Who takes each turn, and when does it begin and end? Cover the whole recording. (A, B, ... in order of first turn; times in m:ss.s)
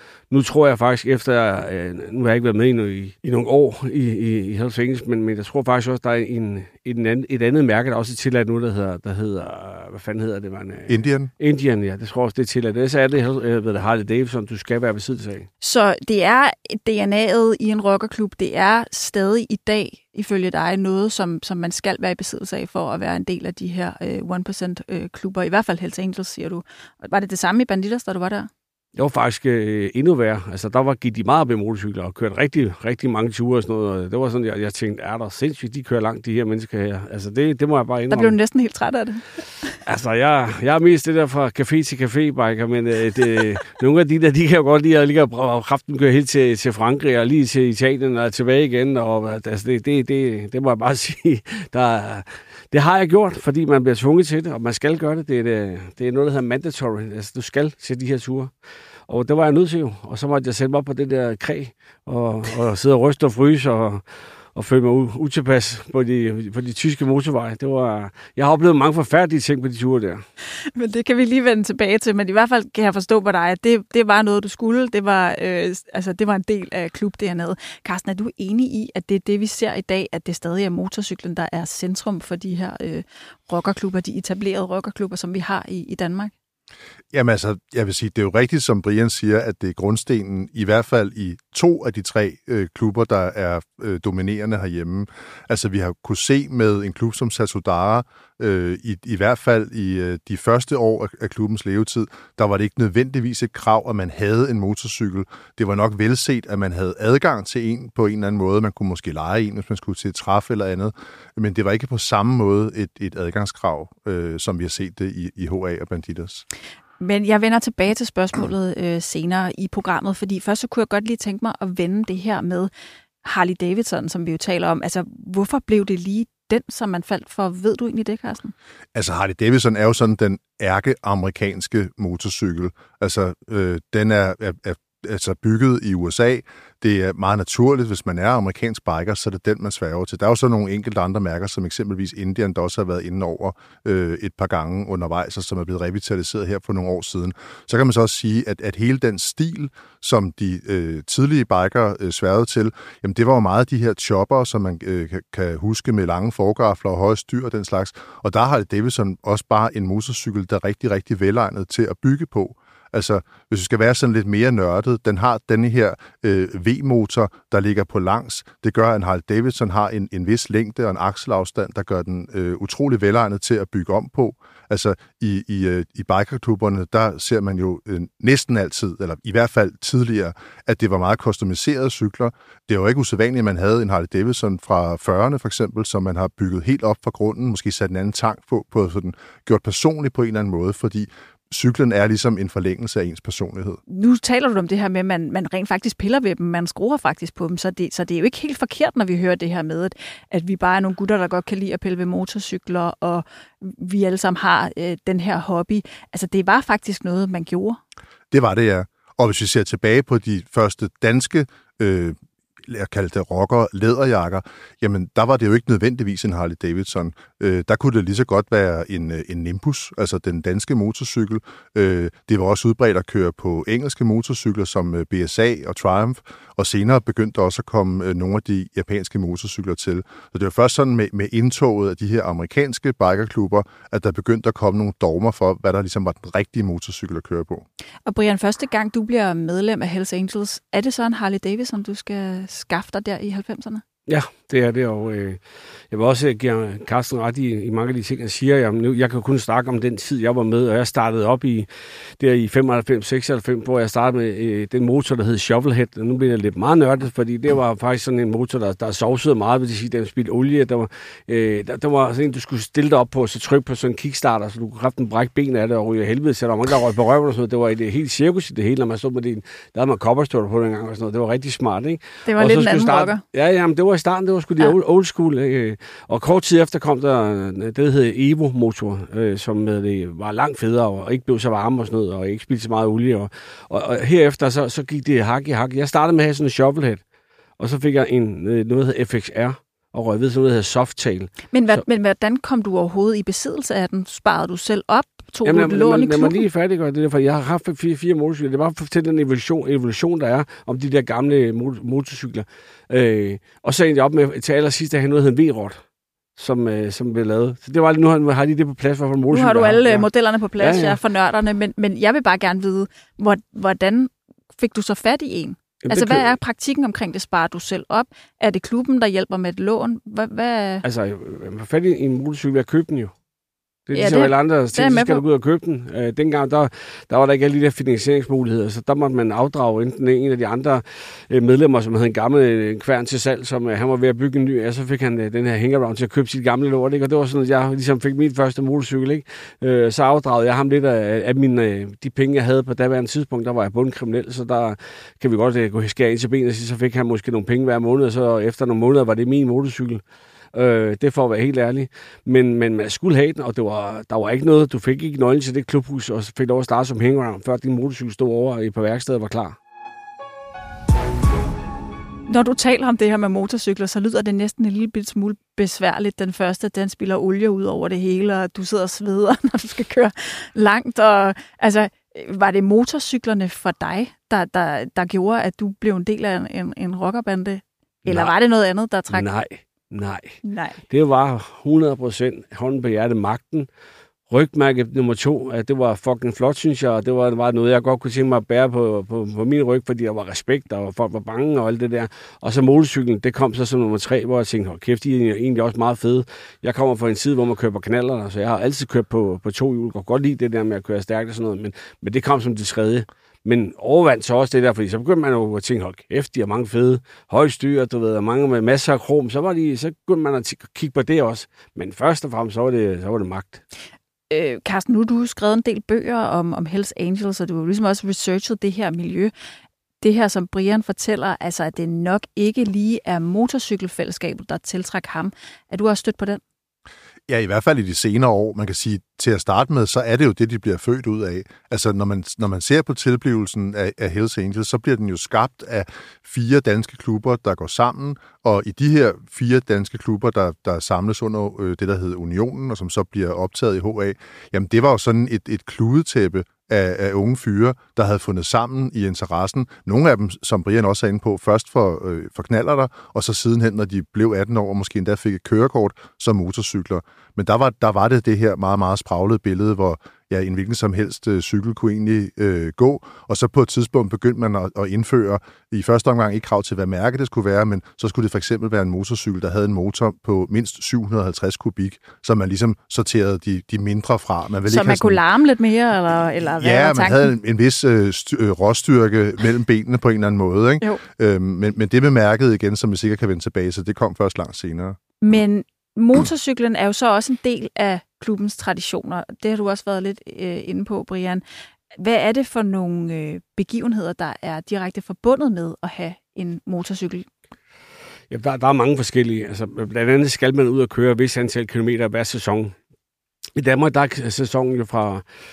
0:00.3-0:15.5 A
0:10.9-0:11.3 B
0:15.6-0:28.5 C
0:29.0-0:38.4 A
0:38.1-0:39.2 C
0:39.8-0:58.5 A
0:59.1-1:10.2 A
1:10.8-1:26.3 C
1:27.1-1:56.4 B
1:57.0-2:02.7 C
2:03.2-2:08.5 C
2:08.9-3:13.8 B
3:13.9-3:27.8 C
3:28.3-3:57.7 B
3:58.1-4:03.8 C
4:04.1-4:47.0 A
4:32.2-4:33.2 C
4:47.6-4:51.8 A
4:51.5-4:56.4 C
4:55.4-5:05.8 A
5:06.4-5:10.1 A
5:09.3-5:20.8 C
5:10.6-5:11.0 A
5:15.8-5:16.3 A
5:20.8-5:23.1 A
5:23.9-5:50.0 A
5:23.9-5:25.2 C
5:50.5-5:59.6 A
6:02.3-6:19.2 C
6:18.1-6:18.3 A
6:19.1-6:23.7 A
6:20.4-6:20.8 C
6:24.3-6:53.6 A
6:54.3-6:59.3 C
7:00.0-7:06.4 C
7:07.3-7:55.2 B
7:54.7-7:57.3 C
7:56.6-8:05.0 B
8:05.2-8:11.4 C
8:12.0-8:17.3 C
8:18.3-8:22.8 A
8:23.6-8:25.2 A